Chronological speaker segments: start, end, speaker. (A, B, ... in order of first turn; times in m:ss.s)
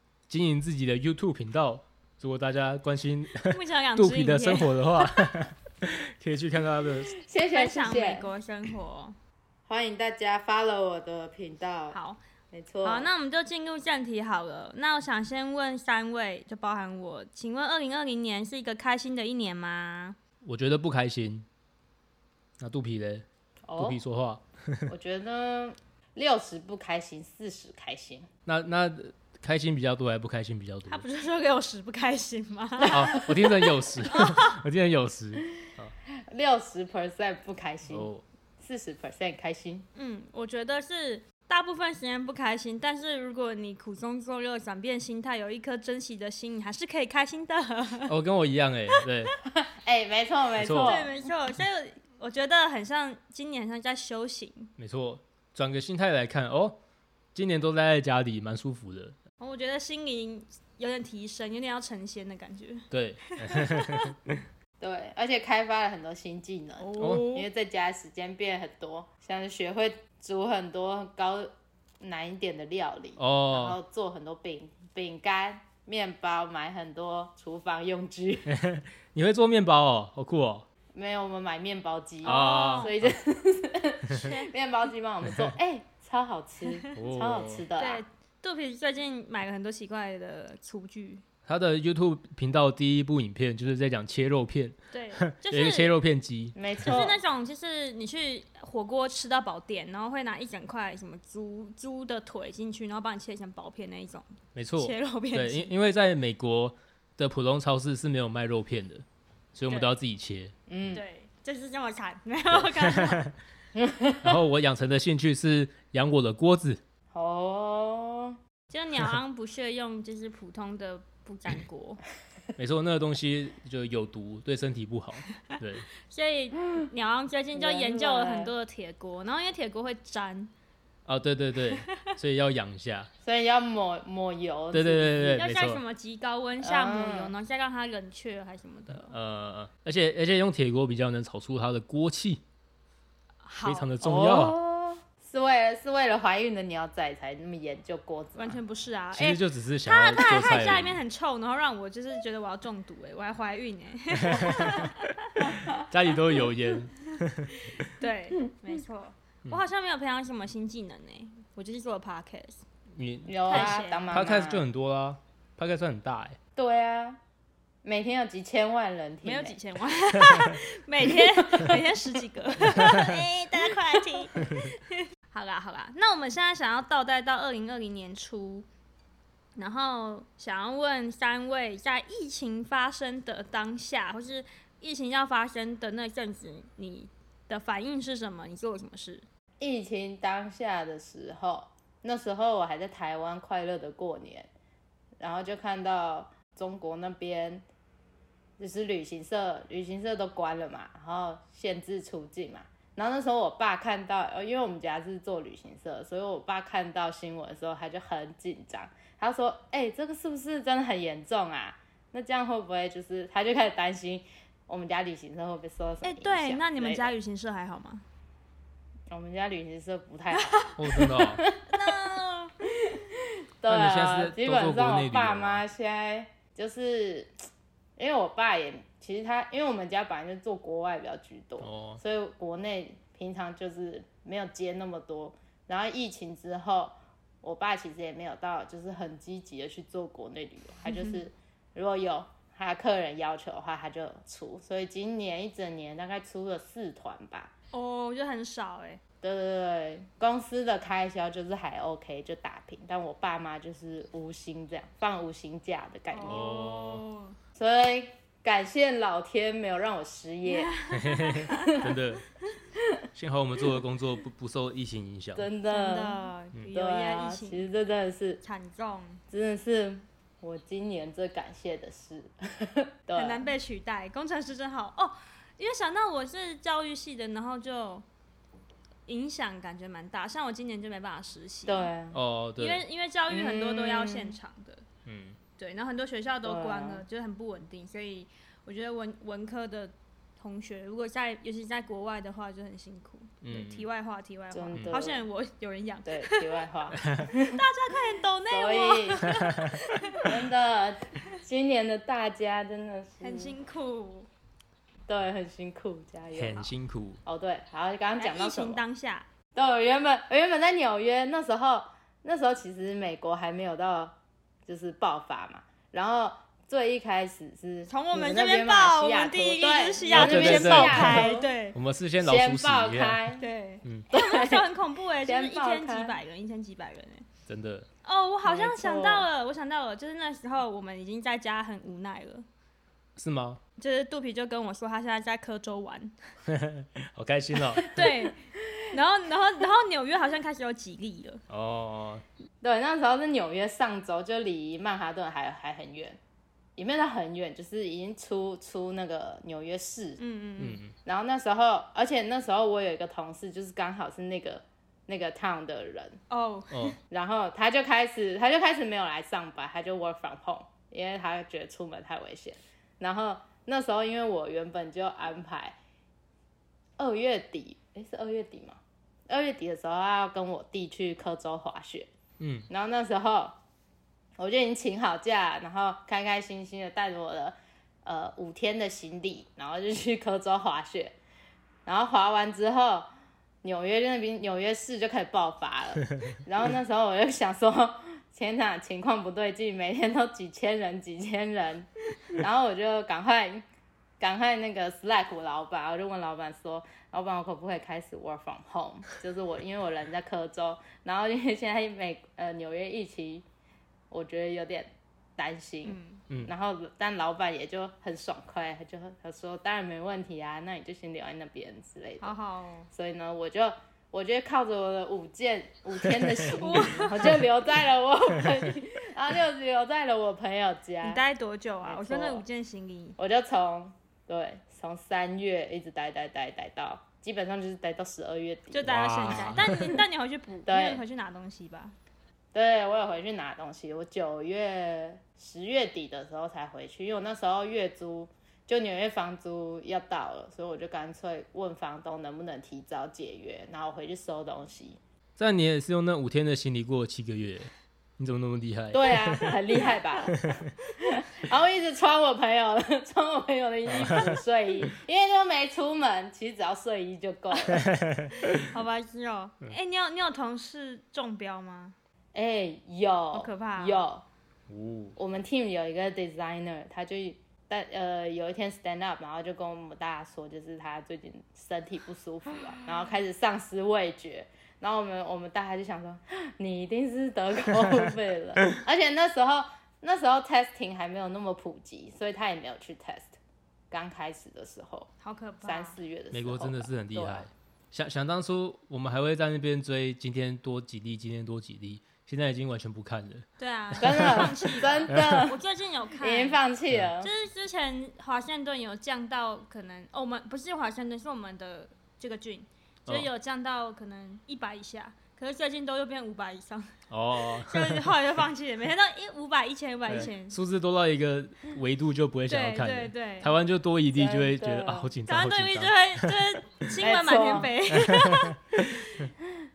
0:00.3-0:07.1 A
0:03.4-0:05.3 B
0:07.1-0:08.3 C
0:07.5-0:09.2 B
0:09.7-0:12.0 C
0:11.9-0:12.2 B
0:12.5-0:13.1 C
0:12.8-0:20.2 B
0:20.4-0:21.5 A
0:22.6-0:24.9 A
0:23.7-0:24.0 C
0:24.9-0:28.3 C
0:28.5-0:31.0 A
0:30.9-0:33.6 B
0:32.8-0:35.9 A
0:32.9-0:33.5 C
0:34.1-0:34.6 B
0:36.3-0:38.1 C
0:37.9-0:38.2 A
0:38.6-0:39.9 C
0:40.0-0:48.1 B
0:48.1-0:49.4 A
0:49.6-0:51.1 C
0:50.6-0:51.0 A
0:50.8-0:54.7 B
0:54.8-0:56.8 A
0:57.4-0:59.2 A
0:59.4-1:04.1 B
1:02.9-1:04.4 A
1:04.8-1:18.5 C
1:06.8-1:07.5 B
1:07.0-1:07.3 A
1:13.2-1:13.8 A
1:18.5-1:20.7 A
1:20.9-1:28.0 C
1:22.2-1:22.9 B
1:22.2-1:23.2 A
1:24.1-1:24.5 B
1:25.2-1:25.5 A
1:27.0-1:27.7 A
1:27.8-1:31.2 B
1:31.5-1:37.0 A
1:34.9-1:36.0 B
1:36.6-1:37.2 C
1:36.8-1:45.7 B
1:44.6-1:51.0 A
1:50.7-1:51.0 C
1:50.9-1:53.2 B
1:52.5-1:53.3 A
1:53.8-1:54.4 C
1:54.2-1:56.8 A
1:57.1-1:58.4 C
1:58.7-2:02.0 B
2:02.6-2:05.9 A
2:06.0-2:10.5 B
2:07.5-2:08.5 C
2:11.1-2:13.1 A
2:13.2-2:15.4 C
2:14.7-2:15.8 A
2:15.2-2:19.2 B
2:16.6-2:17.3 C
2:19.0-2:22.4 A
2:23.4-2:23.9 B
2:23.6-2:24.6 A
2:24.0-2:28.6 C
2:28.4-2:35.4 B
2:29.1-2:31.0 A
2:34.2-2:35.0 A
2:35.6-2:35.8 C
2:35.7-2:37.7 A
2:37.8-2:42.6 B
2:42.9-2:46.4 A
2:43.3-2:44.7 C
2:43.5-2:44.2 B
2:46.6-2:47.2 C
2:47.8-2:49.6 C
2:49.2-2:58.7 B
2:52.8-2:53.0 A
2:59.6-3:09.2 B
3:09.6-3:14.5 C
3:15.2-3:17.6 C
3:18.6-3:37.1 C
3:36.0-3:38.0 B
3:39.1-3:42.0 C
3:40.3-3:41.1 B
3:40.8-3:41.4 A
3:41.7-3:42.6 B
3:42.7-3:47.3 C
3:43.7-3:45.6 A
3:48.0-4:07.5 C
3:51.6-3:52.0 A
4:00.9-4:01.2 B
4:07.7-4:09.0 B
4:09.2-4:16.5 C
4:16.1-4:17.4 B
4:16.2-4:17.0 A
4:17.6-4:20.7 C
4:20.5-4:21.9 B
4:20.9-4:22.2 A
4:21.6-4:21.9 C
4:22.8-4:23.0 C
4:23.2-4:25.5 A
4:25.4-4:28.4 C
4:25.7-4:27.7 B
4:28.4-4:29.2 B
4:29.3-4:33.5 C
4:33.2-4:38.0 B
4:39.1-4:41.9 B
4:41.7-4:42.2 C
4:42.1-4:42.8 A
4:42.6-4:44.8 B
4:43.3-4:44.4 C
4:45.1-4:45.4 A
4:45.6-4:56.6 B
4:46.4-4:47.0 C
4:53.4-4:53.9 A
4:54.5-4:55.3 C
4:56.1-4:57.6 C
4:57.4-5:00.3 B
4:58.5-4:59.3 C
5:00.2-5:03.6 C
5:03.2-5:04.3 B
5:05.1-5:06.7 C
5:06.4-5:07.2 A
5:07.2-5:08.8 C
5:08.2-5:09.3 B
5:09.6-5:14.2 C
5:14.7-5:21.5 C
5:17.9-5:21.8 B
5:20.1-5:23.2 A
5:22.2-5:23.4 C
5:23.4-5:27.3 B
5:24.1-5:24.7 C
5:25.2-5:26.2 C
5:27.5-5:27.9 A
5:28.0-5:32.5 B
5:28.4-5:29.3 C
5:33.2-5:33.6 A
5:33.8-5:36.1 B
5:36.5-5:37.9 A
5:37.9-5:41.4 B
5:41.5-5:42.2 A
5:42.6-5:46.2 C
5:46.8-5:50.2 C
5:50.2-5:50.8 B
5:50.6-5:50.9 A
5:51.0-5:56.2 C
5:56.3-5:57.0 B
5:57.1-6:05.8 C
6:07.0-6:12.1 C
6:12.4-6:12.7 A
6:12.7-6:13.6 C
6:14.4-6:21.2 C
6:21.9-6:23.1 C
6:23.6-6:33.6 C
6:34.2-6:43.4 C
6:44.1-6:52.4 C
6:45.8-6:46.2 B
6:52.2-6:52.9 B
6:52.9-7:01.2 C
6:56.0-6:56.5 A
6:56.5-6:57.4 B
6:58.4-6:58.7 A
7:01.0-7:03.2 B
7:01.8-7:02.4 C
7:03.2-7:09.8 C
7:08.7-7:12.0 B
7:08.9-7:10.0 A
7:10.7-7:11.0 C
7:12.5-7:25.0 C
7:25.4-7:29.5 A
7:28.9-7:30.4 C
7:30.3-7:30.7 A
7:31.0-7:37.9 C
7:33.9-7:34.4 A
7:37.7-7:38.7 A
7:38.4-7:42.0 B
7:42.3-7:44.2 C
7:43.3-7:44.0 B
7:44.7-7:45.2 A
7:45.2-8:03.4 C
8:03.9-8:05.1 C
8:05.2-8:06.0 B
8:05.6-8:07.5 C
8:06.3-8:14.5 A
8:13.6-8:16.6 B
8:14.0-8:15.6 C
8:15.1-8:15.4 A
8:16.2-8:17.3 C
8:17.2-8:30.6 B
8:27.1-8:28.1 A
8:30.1-8:36.3 A
8:32.5-8:33.5 B
8:34.1-8:35.1 C
8:35.3-8:39.2 B
8:37.0-8:37.7 C
8:38.1-8:38.6 A